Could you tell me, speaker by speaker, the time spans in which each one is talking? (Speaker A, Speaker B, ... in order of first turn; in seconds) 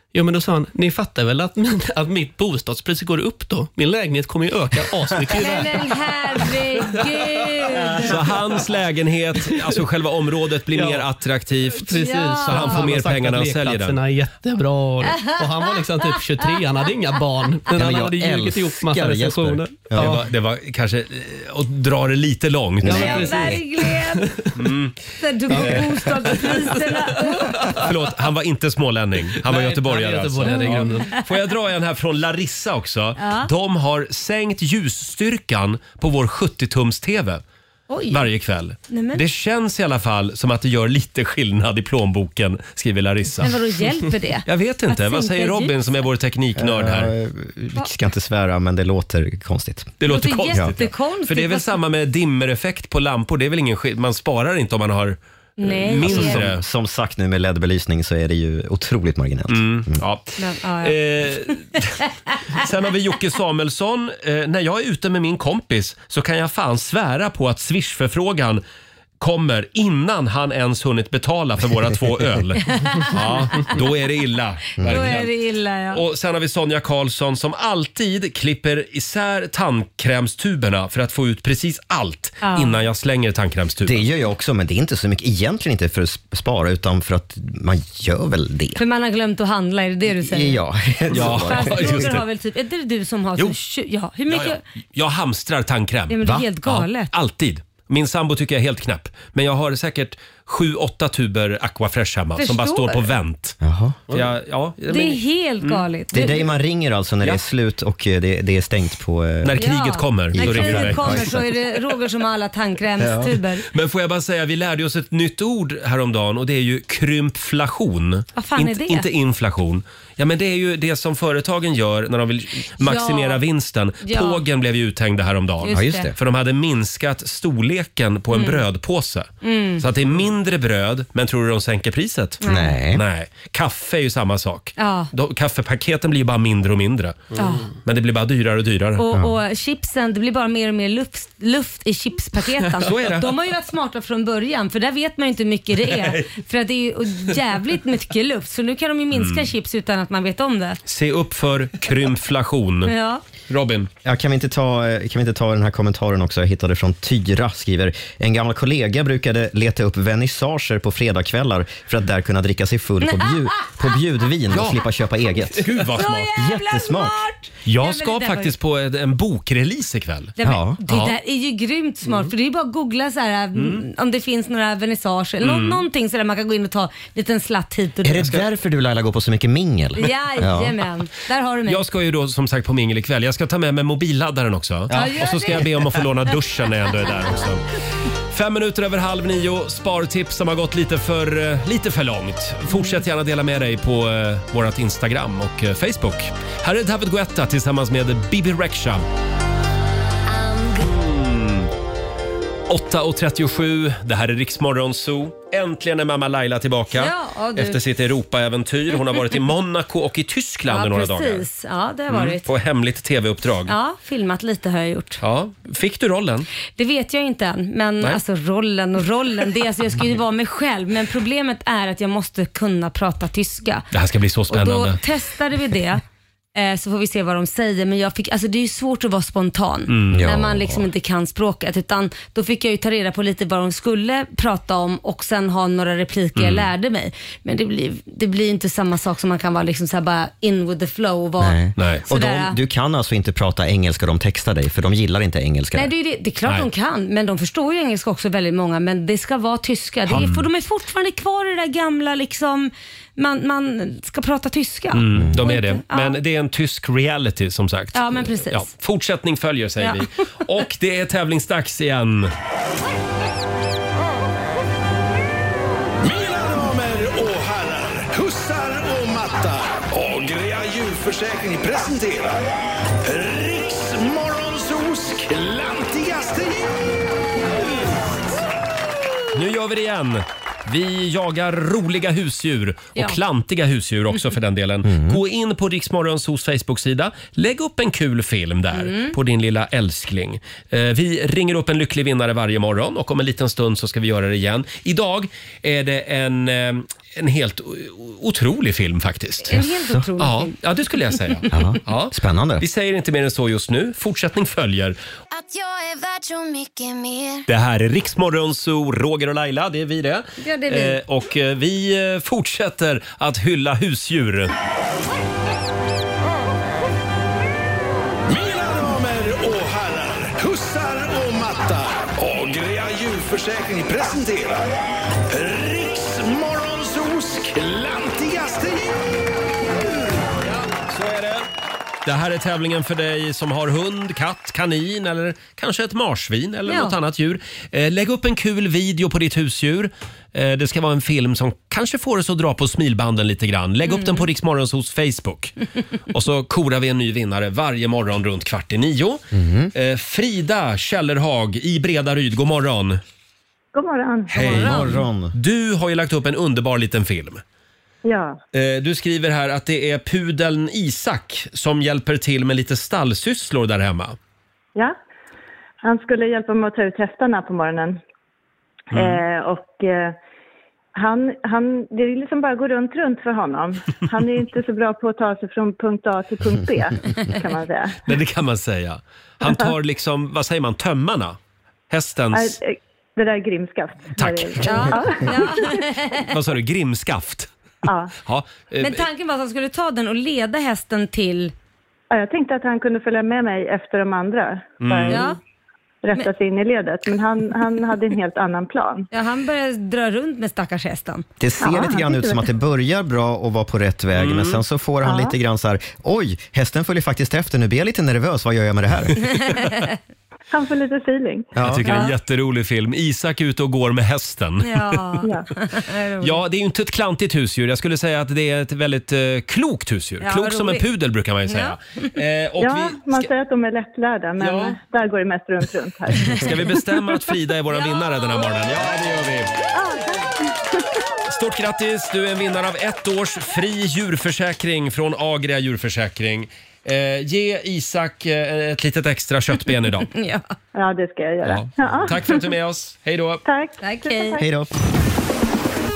Speaker A: 0.1-5.9, 10.7-11.1, 11.7-20.2, 22.9-24.5, 29.4-31.2
Speaker B: 5.4-8.2, 12.0-12.8, 15.1-15.3, 22.9-24.3, 25.2-27.6, 30.9-31.2, 33.2-33.5, 37.9-38.2, 38.9-39.2, 43.4-46.0, 50.1-51.8, 55.6-56.5, 60.4-61.0, 72.6-73.7, 74.8-76.0, 82.4-82.8, 88.8-90.6, 91.2-94.6, 96.1-97.1, 102.4-103.1, 104.9-106.5, 109.6-113.7, 118.3-119.1, 122.8-123.4, 124.0-124.4, 125.6-126.1, 128.3-128.6, 129.4-129.8, 132.4-132.8, 134.8-135.1, 137.4-137.7, 139.0-150.8, 152.9-153.2, 163.0-163.7, 165.9-168.5, 170.4-178.4, 180.0-181.8, 184.9-185.8, 192.7-193.0, 206.9-207.8, 210.7-212.5, 213.7-215.2, 216.8-223.9, 224.5-226.0, 226.6-241.6, 242.1-242.6, 245.7-256.2, 257.9-258.7, 288.7-289.2, 299.5-300.6, 301.2-301.6, 310.4-311.0, 336.7-336.9, 343.9-344.3, 354.4-354.9, 384.6-386.3, 388.8-391.5, 395.1-395.4, 399.1-401.2, 409.3-409.9, 414.6-416.4, 420.2-420.8, 421.5-422.1, 440.1-440.5, 443.8-444.4
Speaker C: 8.1-14.0, 19.9-23.3, 24.6-25.9, 27.7-37.4, 38.1-43.6, 44.5-47.1, 50.0-56.6, 59.5-62.0, 62.5-68.6, 69.2-75.3, 75.9-84.0, 91.1-92.2, 94.3-103.6, 104.1-105.8, 109.4-111.4, 113.7-129.3, 129.8-132.4, 132.9-139.1, 142.8-143.3, 145.8-146.3, 149.1-149.5, 150.9-152.9, 153.5-153.9, 164.5-164.8, 165.6-166.3, 167.7-170.4, 170.9-171.2, 173.6-173.8, 175.4-175.8, 181.7-187.6, 188.3-199.0, 200.8-201.7, 202.7-211.5, 212.1-213.7, 215.2-216.5, 223.9-225.0, 229.9-230.3, 236.4-236.7, 241.8-242.0, 250.2-250.4, 254.9-262.3, 279.3-299.6, 300.2-305.0, 307.5-314.5, 330.4-331.5, 332.1-345.6, 346.1-353.0, 354.3-357.4, 358.5-364.2, 368.9-369.2, 378.1-381.4, 381.9-382.6, 384.2-385.3, 386.2-387.5, 388.2-389.1, 394.8-395.2, 404.1-404.6, 411.6-415.3, 416.2-423.3, 424.4-424.8, 426.3-429.5, 431.3-440.1, 441.4-443.4
Speaker D: 17.7-20.2, 22.8-23.6, 25.5-25.8, 46.6-50.0, 56.0-60.0, 74.8-75.2, 83.8-88.8, 90.1-92.2, 103.6-104.3, 106.1-109.7, 110.3-111.5, 113.0-113.3, 125.7-126.2, 132.5-133.0, 154.0-167.2, 170.4-170.8, 178.0-180.8, 184.9-185.2, 230.1-230.8, 241.4-245.9, 250.1-250.3, 255.2-255.4, 284.9-285.2, 299.6-300.1, 301.5-302.6, 349.3-349.7, 354.4-355.3, 401.4-409.2, 411.6-411.9, 444.4-444.7
Speaker E: 200.3-200.8, 305.3-307.5
Speaker F: 266.0-272.4, 273.0-276.7, 318.3-324.7, 325.3-329.0
Speaker G: 353.7-354.7, 358.0-358.4, 365.8-368.0, 368.9-370.2, 371.0-378.0, 382.3-385.6, 387.8-388.1, 392.1-395.4, 396.0-399.1, 401.6-402.4, 405.0-405.4, 410.5-411.5, 422.6-426.9, 429.7-430.8, 440.8-442.5, 443.4-444.5